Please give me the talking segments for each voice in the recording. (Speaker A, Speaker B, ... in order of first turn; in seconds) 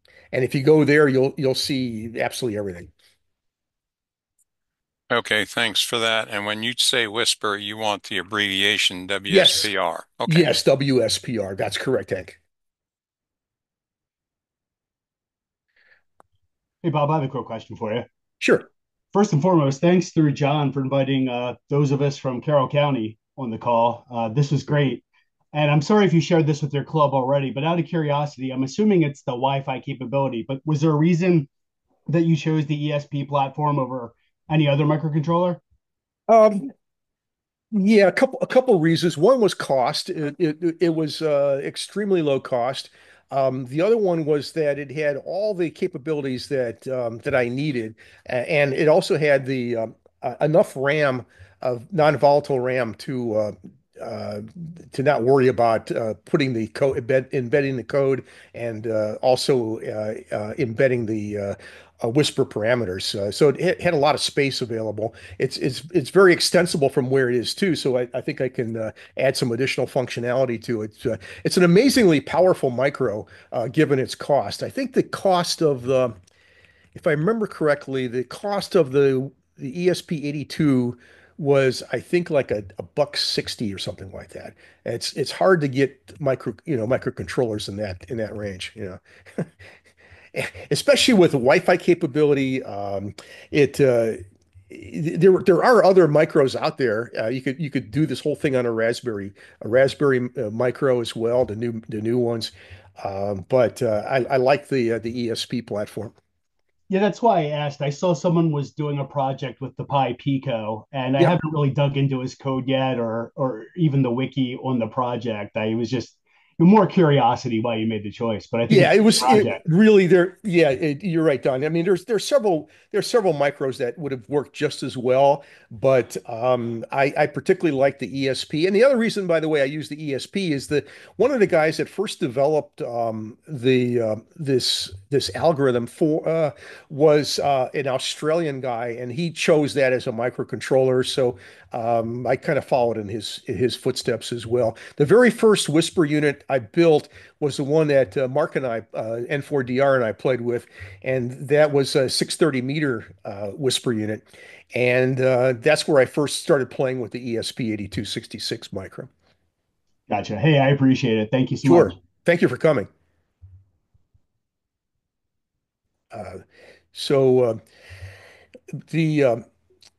Speaker A: 0.3-2.9, 9.3-9.7, 10.3-12.4, 18.4-18.7, 36.3-36.7, 37.7-76.2, 77.0-89.5, 90.3-106.1, 118.7-159.1, 161.6-162.9, 166.1-166.4, 166.9-167.6, 168.9-169.4
Speaker B: 5.1-10.5
Speaker C: 16.8-18.1, 19.1-31.5, 32.1-35.6, 106.9-119.6, 160.1-161.9